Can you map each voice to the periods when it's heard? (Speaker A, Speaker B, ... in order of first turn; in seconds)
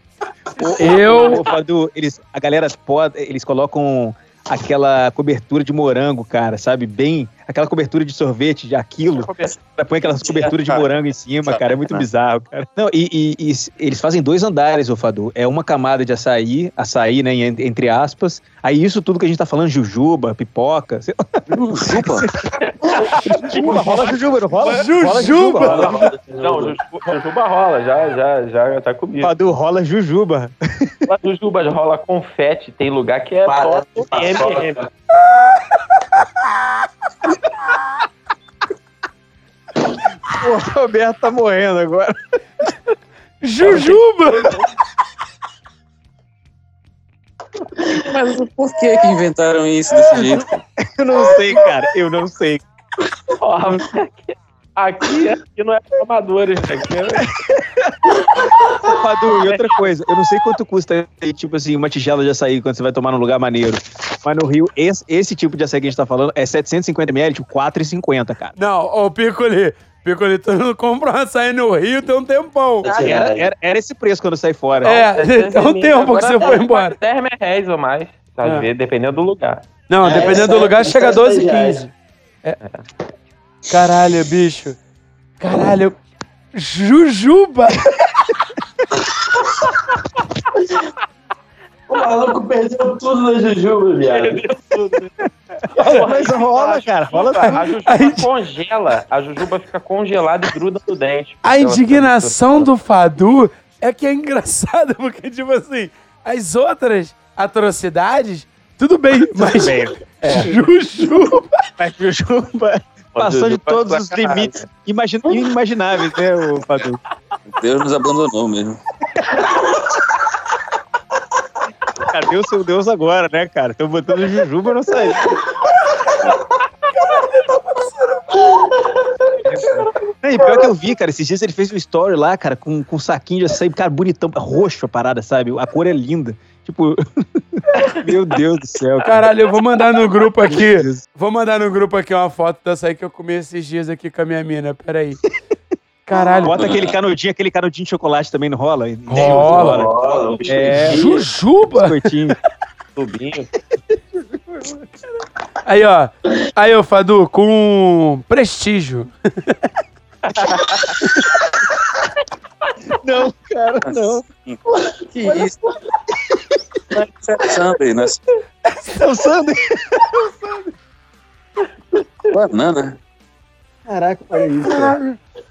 Speaker A: 0.6-21.1, 21.8-22.3, 23.3-25.9, 29.2-30.9, 40.3-42.1, 50.8-52.6, 56.9-58.0, 58.8-68.5, 73.0-75.0, 95.8-97.6, 109.2-117.0, 122.0-125.3, 130.2-139.2, 140.5-141.0, 146.4-149.9, 150.4-151.1, 151.6-152.4, 153.9-154.8, 163.0-164.2, 168.9-170.7, 173.8-175.0
Speaker B: 0.8-1.4, 24.6-25.9, 43.4-44.5, 68.6-72.9, 74.8-77.0, 78.4-78.7, 79.9-81.9, 83.7-84.8, 85.4-86.0, 86.5-88.3, 95.7-96.0, 97.5-98.3, 101.4-111.6, 126.9-128.4, 139.0-145.2, 146.1-146.6, 149.1-149.8, 150.8-152.1, 155.6-159.5, 168.7-169.0, 174.7-175.2
Speaker C: 1.1-1.5, 9.2-10.9, 23.2-24.1, 25.6-29.3, 31.1-34.8, 53.4-57.2, 59.3-59.8, 72.8-73.3, 74.8-80.3, 82.6-82.8, 94.1-95.2, 95.8-102.7, 113.1-114.6, 129.5-129.9, 149.1-150.9, 152.9-153.5, 160.3-160.9
Speaker D: 21.5-22.3, 47.9-50.6, 117.5-118.8, 146.5-146.9, 163.8-164.6, 165.1-165.6, 166.9-168.2, 172.3-173.0
Speaker E: 23.0-24.1, 25.6-26.8, 33.5-34.8, 72.8-73.5, 80.0-81.8, 91.9-94.4, 119.4-119.8, 128.4-128.8, 149.1-151.3, 164.7-165.4